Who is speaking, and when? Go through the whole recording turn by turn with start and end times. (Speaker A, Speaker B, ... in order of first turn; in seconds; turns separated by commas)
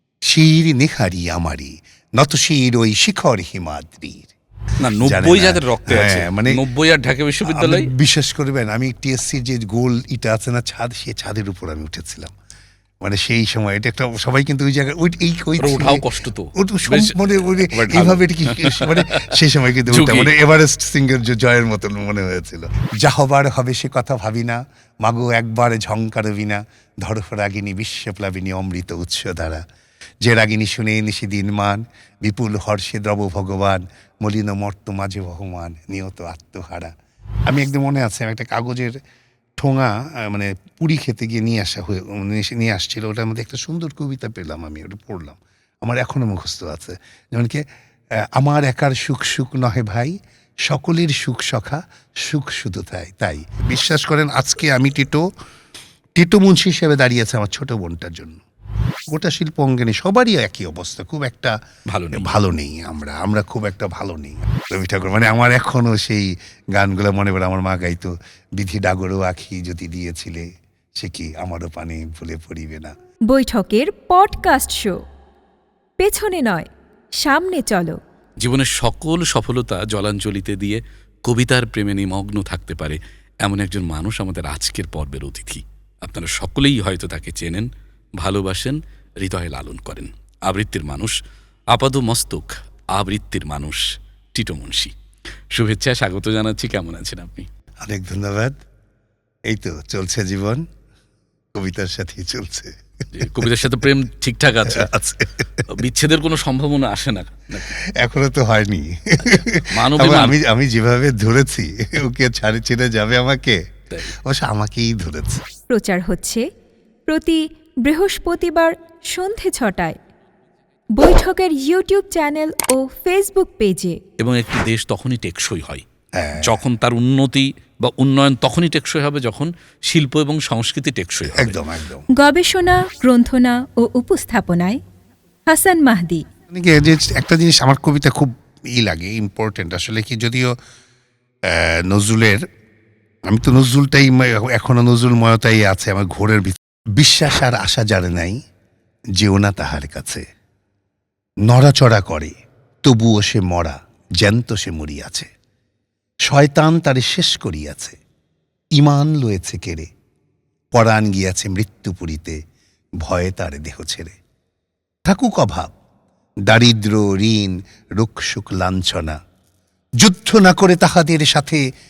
Speaker A: 0.3-4.3, Speaker B: 4.8-7.9, Speaker A: 5.0-6.6, Speaker A: 7.4-12.3, Speaker A: 13.0-29.6, Speaker B: 15.6-20.3, Speaker A: 30.2-36.9, Speaker A: 37.5-39.0, Speaker A: 39.6-47.6, Speaker A: 48.3-55.2, Speaker A: 56.2-58.4, Speaker A: 59.1-61.5, Speaker B: 61.9-62.3, Speaker A: 62.1-70.5, Speaker A: 71.0-72.9, Speaker C: 73.3-75.0, Speaker C: 76.0-76.7, Speaker C: 77.2-78.0, Speaker B: 78.4-91.2, Speaker B: 91.7-93.8, Speaker B: 94.3-94.9, Speaker B: 95.5-97.5, Speaker A: 97.8-98.6, Speaker A: 99.5-100.6, Speaker A: 101.5-103.6, Speaker B: 103.1-104.9, Speaker A: 104.7-105.6, Speaker B: 105.7-107.7, Speaker A: 107.7-115.4, Speaker B: 109.7-110.3, Speaker C: 115.7-116.4, Speaker C: 117.1-120.0, Speaker C: 121.0-124.0, Speaker B: 124.2-125.8, Speaker A: 126.2-126.6, Speaker B: 126.4-131.6, Speaker A: 131.3-132.1, Speaker C: 132.2-134.8, Speaker C: 135.5-136.2, Speaker A: 136.5-140.5, Speaker A: 141.5-142.4, Speaker A: 143.3-148.4, Speaker A: 149.2-150.2, Speaker A: 151.5-155.3, Speaker A: 156.3-158.0, Speaker A: 158.8-159.9, Speaker A: 160.7-162.4, Speaker A: 163.0-164.2, Speaker A: 165.0-165.7, Speaker A: 166.5-169.2, Speaker A: 170.0-171.6